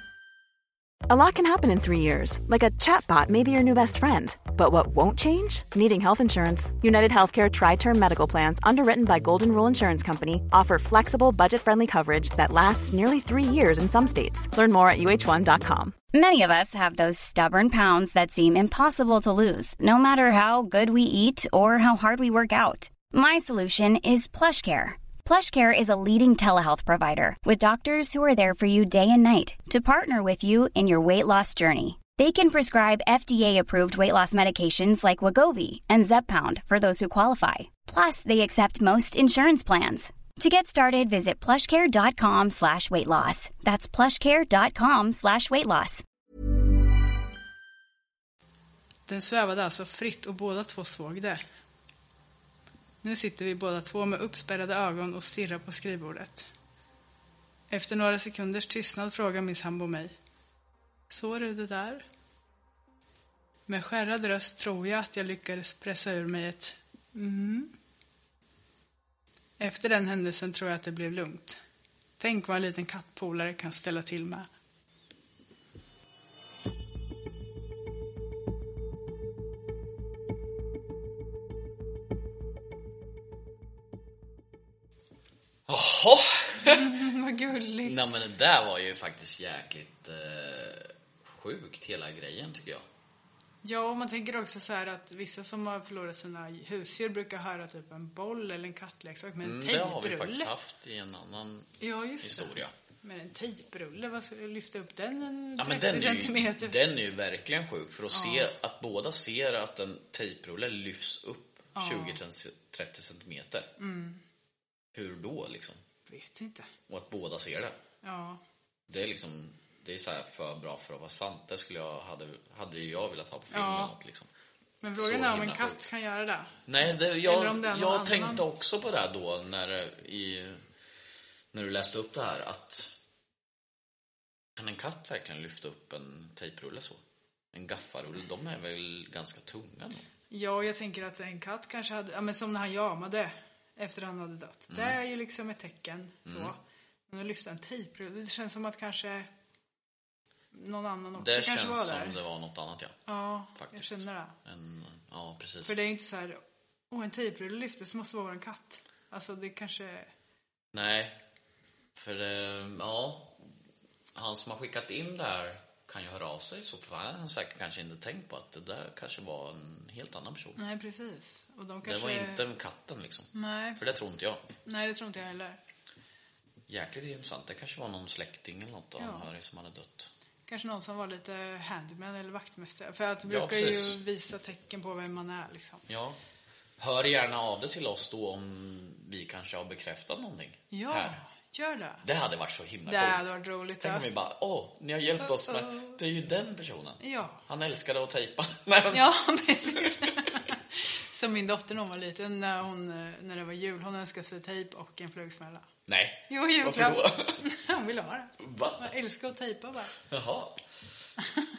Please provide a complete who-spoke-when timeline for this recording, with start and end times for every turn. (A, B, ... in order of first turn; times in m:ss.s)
0:01.1-0:15.9 A
0:16.1-0:46.0 B
0:49.1-0:51.4 C
0:53.0-0:56.5 C
0:57.7-1:00.1 C
1:01.1-1:02.0 C
1:03.7-1:07.7 C
1:09.6-1:11.6 C
1:12.2-1:14.5 C
1:25.7-1:27.0 D
1:26.6-1:28.0 C
1:27.8-1:32.8 D
1:33.6-1:40.5 C
1:39.4-1:42.7 D
1:41.8-1:46.8 C
1:45.6-1:53.7 D
1:48.1-1:48.5 C
1:51.8-1:52.2 C
1:53.8-1:54.2 C
1:54.9-1:55.8 D
1:56.1-1:56.7 C
1:56.9-1:57.8 D
1:58.0-1:58.4 C
1:58.9-2:04.3 D
2:03.5-2:03.9 C
2:04.8-2:06.6 C
2:05.0-2:05.9 D
2:06.7-2:10.6 D
2:07.2-2:08.4 C
2:11.5-2:12.9 D
2:14.6-2:17.0 D
2:17.5-2:20.1 D
2:20.3-2:26.6 C
2:24.7-2:25.0 D
2:26.2-2:26.5 D
2:27.1-2:29.3 C
2:30.5-2:32.2 C
2:31.2-2:33.0 D
2:33.1-2:34.3 C
2:33.5-2:35.8 D
2:35.6-2:36.4 C
2:36.9-2:40.1 C
2:40.7-2:41.2 D
2:42.0-2:43.4 D
2:44.1-2:50.6 D
2:50.6-2:52.4 C
2:51.8-2:54.4 D
2:53.3-2:53.8 C
2:54.6-2:55.6 C
2:56.7-3:00.1 D
2:59.0-2:59.3 C
3:00.5-3:05.8 C
3:03.2-3:04.0 D
3:05.9-3:06.2 D
3:06.8-3:11.2 D
3:10.7-3:12.0 C
3:12.0-3:19.2 D
3:12.9-3:14.0 C
3:15.2-3:16.0 C
3:17.0-3:17.4 C
3:18.9-3:25.7 C
3:25.9-3:27.4 D
3:26.3-3:29.9 C
3:28.4-3:28.9 D
3:30.1-3:30.6 D